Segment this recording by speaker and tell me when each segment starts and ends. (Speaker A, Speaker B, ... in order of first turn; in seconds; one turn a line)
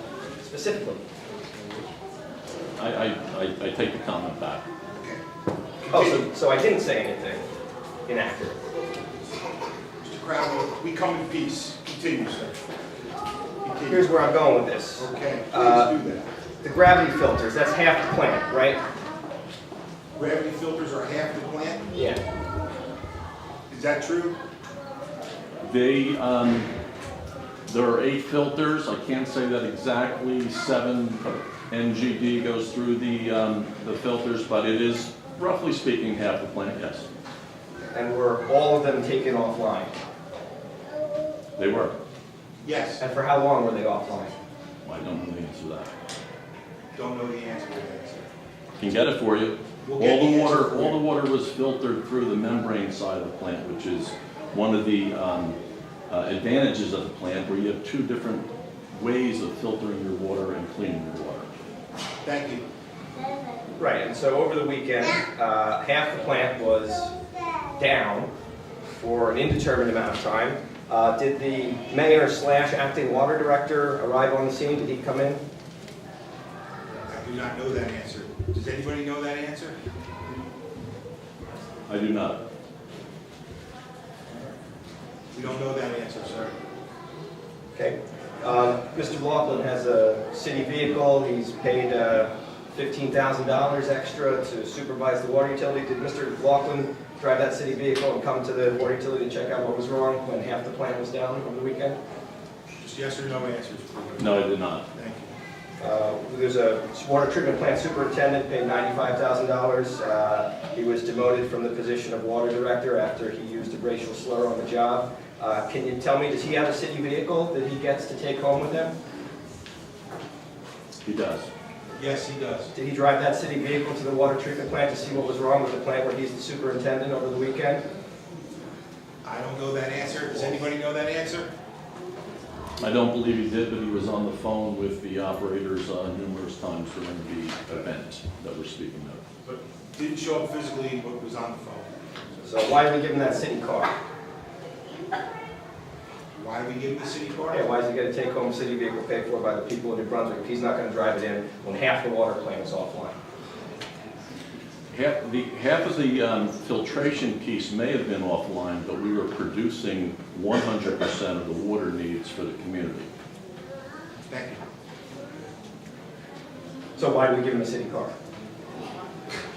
Speaker A: 0.4-1.0
Speaker B: 2.8-4.7
Speaker C: 5.8-6.3
Speaker A: 5.9-7.4
Speaker A: 8.1-8.6
Speaker C: 10.0-12.6
Speaker C: 13.6-14.1
Speaker A: 13.9-15.9
Speaker C: 15.0-16.3
Speaker A: 16.6-18.8
Speaker C: 20.1-21.9
Speaker A: 21.9-22.2
Speaker C: 23.7-24.4
Speaker B: 25.6-26.7
Speaker B: 27.7-37.1
Speaker A: 37.9-39.9
Speaker B: 41.6-41.9
Speaker C: 42.6-43.0
Speaker A: 43.0-44.3
Speaker B: 44.8-45.9
Speaker C: 46.9-48.3
Speaker B: 48.8-55.6
Speaker C: 49.8-51.0
Speaker B: 56.1-61.5
Speaker C: 62.2-62.6
Speaker A: 63.8-67.1
Speaker A: 67.8-68.3
Speaker A: 68.9-75.4
Speaker C: 77.0-79.8
Speaker B: 81.9-82.4
Speaker C: 85.3-86.5
Speaker A: 87.7-102.0
Speaker C: 102.8-105.3
Speaker B: 104.2-104.8
Speaker A: 105.8-118.9
Speaker B: 121.0-121.5
Speaker C: 122.0-122.7
Speaker A: 122.7-127.8
Speaker C: 129.2-131.5
Speaker B: 132.8-139.2
Speaker C: 139.4-141.9
Speaker A: 142.4-143.9
Speaker C: 146.3-147.6
Speaker A: 147.5-153.2
Speaker B: 154.9-163.1
Speaker C: 164.3-164.6
Speaker A: 167.0-168.1